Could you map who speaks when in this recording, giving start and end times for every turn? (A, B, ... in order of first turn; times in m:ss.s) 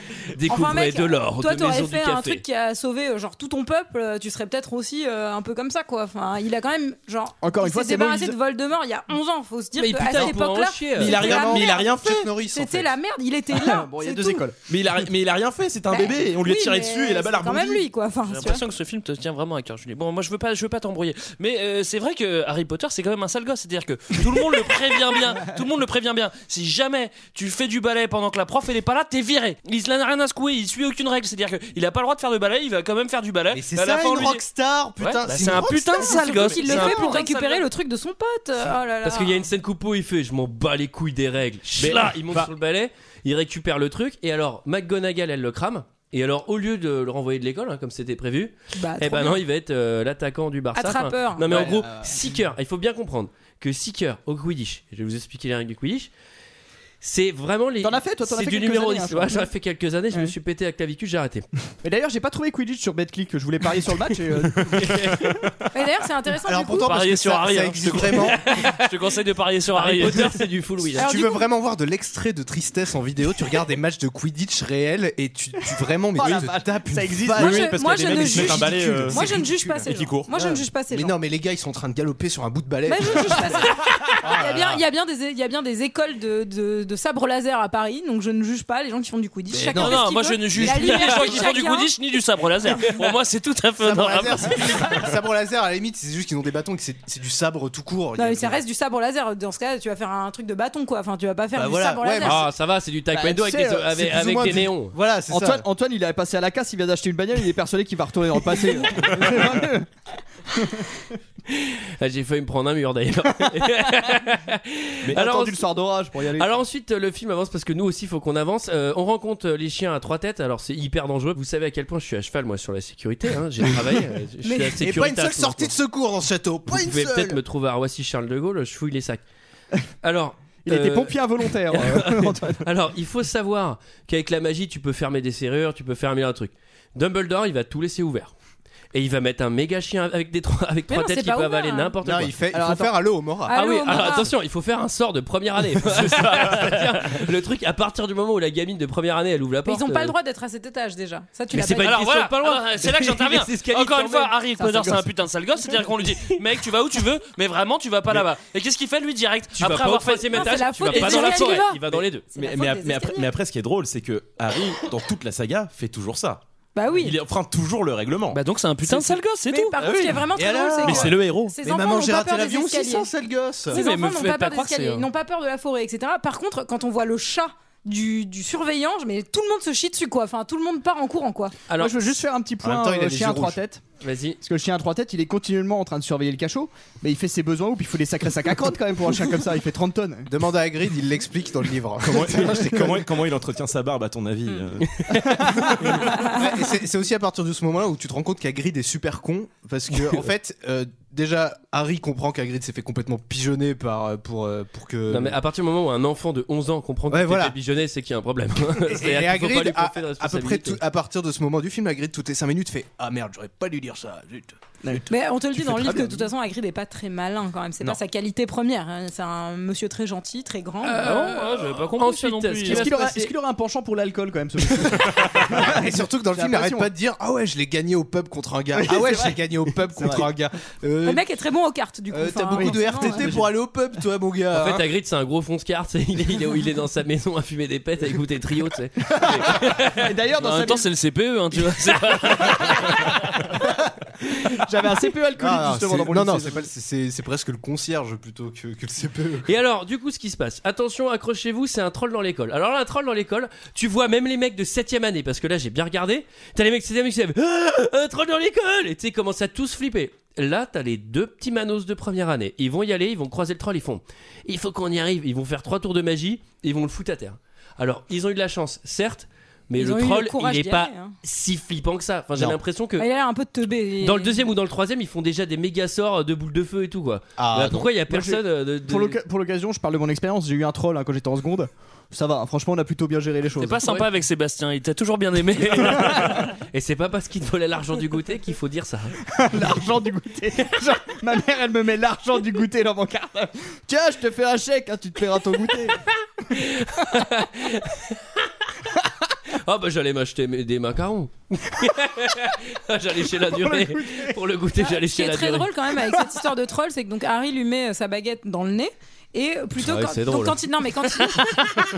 0:00.3-0:02.4 A
0:00.4-0:11.9 B
0:07.4-0:08.4 C
0:09.8-0:11.4 A
0:11.0-0:12.3 D
0:11.0-0:13.0 E
0:12.4-0:14.5 B
0:13.5-0:14.6 C
0:14.7-0:17.9 D
0:15.9-0:18.6 B
0:18.3-0:34.4 F
0:33.5-0:36.5 E
0:35.0-0:37.6 F
0:36.0-0:39.5 B
0:36.6-0:37.2 A
0:39.0-0:56.1 A
0:41.8-0:42.5 D
0:48.8-0:49.4 B
0:50.7-0:51.7 B
0:51.5-0:51.9 C
0:51.5-0:51.8 E
0:57.0-1:01.5 A
0:57.8-0:59.5 C
1:01.8-1:05.3 C
1:04.7-1:05.5 A
1:05.7-1:06.9 B
1:06.4-1:08.4 E
1:06.8-1:10.4 F
1:08.4-1:08.8 A
1:09.7-1:11.1 A
1:11.0-1:11.5 B
1:11.0-1:24.8 E
1:16.1-1:18.0 C
1:17.4-1:20.3 D
1:17.4-1:21.2 B
1:22.9-1:32.0 B
1:29.5-1:31.0 E
1:29.7-1:35.1 F
1:31.0-1:31.4 A
1:33.8-1:38.6 E
1:38.2-1:42.5 B
1:41.5-1:42.5 E
1:42.2-1:45.0 A
1:43.1-1:43.9 C
1:43.9-1:45.6 E
1:45.3-1:49.9 C
1:50.5-1:51.0 C
1:51.5-1:55.6 A
1:55.1-1:56.5 C
1:56.3-2:05.8 A
2:04.4-2:04.8 B
2:04.8-2:07.4 E
2:06.7-2:09.2 A
2:10.0-2:18.3 A
2:10.6-2:12.7 C
2:18.9-2:22.3 A
2:20.9-2:22.0 B
2:22.0-2:23.6 E
2:22.5-2:22.9 C
2:23.5-2:24.3 B
2:23.5-2:30.2 A
2:26.4-2:26.7 F
2:29.6-2:32.0 B
2:31.5-2:34.4 A
2:31.6-2:41.7 F
2:34.8-2:35.0 C
2:39.6-2:42.3 A
2:40.3-2:43.3 B
2:42.4-2:49.1 D
2:46.8-2:47.2 B
2:48.3-2:49.8 F
2:49.4-2:53.1 B
2:49.8-2:53.8 E
2:50.8-2:51.6 D
2:53.7-3:01.6 B
2:53.7-2:55.1 F
3:01.7-3:02.0 A
3:01.8-3:03.8 C
3:02.6-3:03.6 E
3:04.0-3:04.4 A
3:04.4-3:10.3 C
3:10.3-3:13.2 E
3:12.1-3:15.0 D
3:14.9-3:16.0 A
3:15.6-3:25.4 E
3:16.1-3:16.4 B
3:19.9-3:20.3 A
3:25.1-3:30.8 A
3:27.1-3:27.6 E
3:28.8-3:34.6 E
3:34.8-3:36.3 C
3:35.1-3:41.4 B
3:40.8-3:43.3 A
3:41.0-3:42.9 F
3:42.6-3:46.9 C
3:44.8-3:51.3 E
3:48.7-3:50.3 C
3:51.0-3:53.3 B
3:52.1-3:54.9 E
3:52.5-3:53.5 C
3:54.5-4:00.1 A
3:59.1-4:00.9 C
4:00.4-4:03.5 F
4:02.3-4:03.0 C
4:04.5-4:06.7 C
4:05.4-4:09.5 E
4:09.5-4:33.1 A
4:29.8-4:31.2 B
4:33.0-4:34.4 B
4:34.0-4:39.2 A
4:37.4-4:37.9 E
4:38.1-4:43.9 C
4:43.6-4:46.5 F
4:45.8-4:46.4 C
4:46.6-4:49.2 A
4:49.3-4:56.0 C
4:56.5-4:58.2 A
4:59.5-5:05.7 A
5:03.5-5:04.4 C
5:04.8-5:11.8 B
5:09.8-5:10.6 A